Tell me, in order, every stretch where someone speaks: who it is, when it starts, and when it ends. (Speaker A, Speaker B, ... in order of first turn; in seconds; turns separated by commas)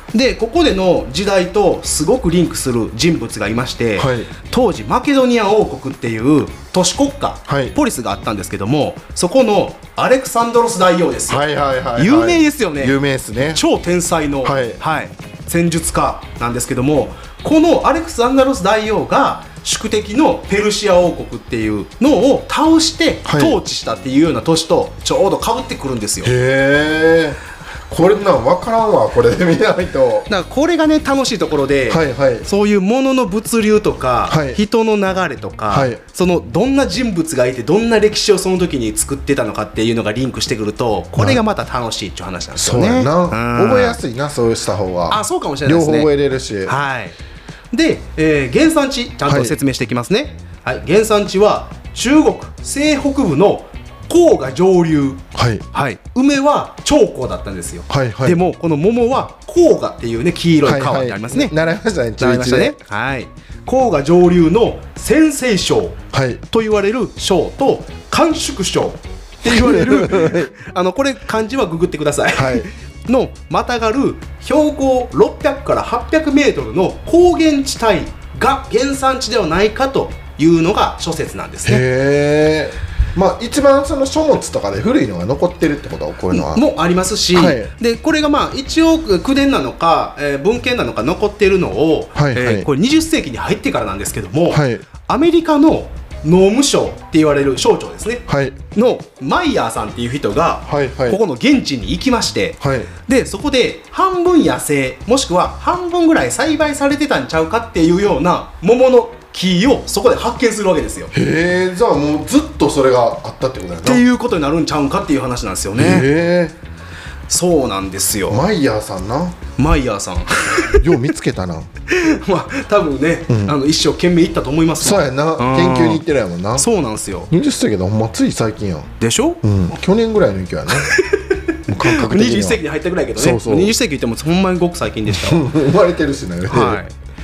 Speaker A: 0.1-11.4, Speaker B: 4.0-4.3, Speaker B: 7.5-7.8, Speaker B: 11.3-13.6, Speaker A: 12.0-12.9, Speaker A: 13.5-26.3, Speaker B: 14.4-14.8, Speaker B: 23.2-23.6, Speaker B: 26.2-30.3, Speaker A: 30.3-44.0, Speaker B: 31.9-32.5, Speaker B: 34.3-34.6, Speaker B: 35.7-36.0, Speaker B: 41.1-41.4, Speaker B: 42.5-46.8, Speaker A: 45.1-46.1, Speaker A: 46.6-47.1, Speaker A: 47.7-61.5, Speaker B: 49.2-49.5, Speaker B: 55.3-55.6, Speaker B: 57.9-58.4, Speaker B: 60.6-62.8, Speaker A: 62.2-81.8, Speaker B: 66.1-66.4, Speaker B: 69.4-70.5, Speaker B: 72.3-72.7, Speaker B: 81.6-86.6, Speaker A: 86.3-111.1, Speaker B: 87.3-87.7, Speaker B: 92.1-92.7, Speaker B: 94.5-94.8, Speaker B: 98.3-98.6, Speaker B: 100.7-101.2, Speaker B: 102.6-102.9, Speaker B: 111.1-114.0, Speaker A: 113.8-116.1, Speaker B: 115.7-116.5, Speaker A: 117.3-118.4, Speaker B: 118.3-119.4, Speaker A: 119.6-121.0, Speaker B: 120.7-121.7, Speaker A: 121.9-126.0, Speaker B: 123.3-123.5, Speaker B: 124.8-126.7, Speaker A: 126.5-127.3, Speaker B: 127.3-128.9, Speaker A: 129.0-129.4, Speaker B: 129.4-130.9, Speaker A: 130.7-135.5, Speaker B: 131.7-132.6, Speaker B: 133.1-133.7, Speaker B: 135.1-136.8, Speaker A: 136.5-136.9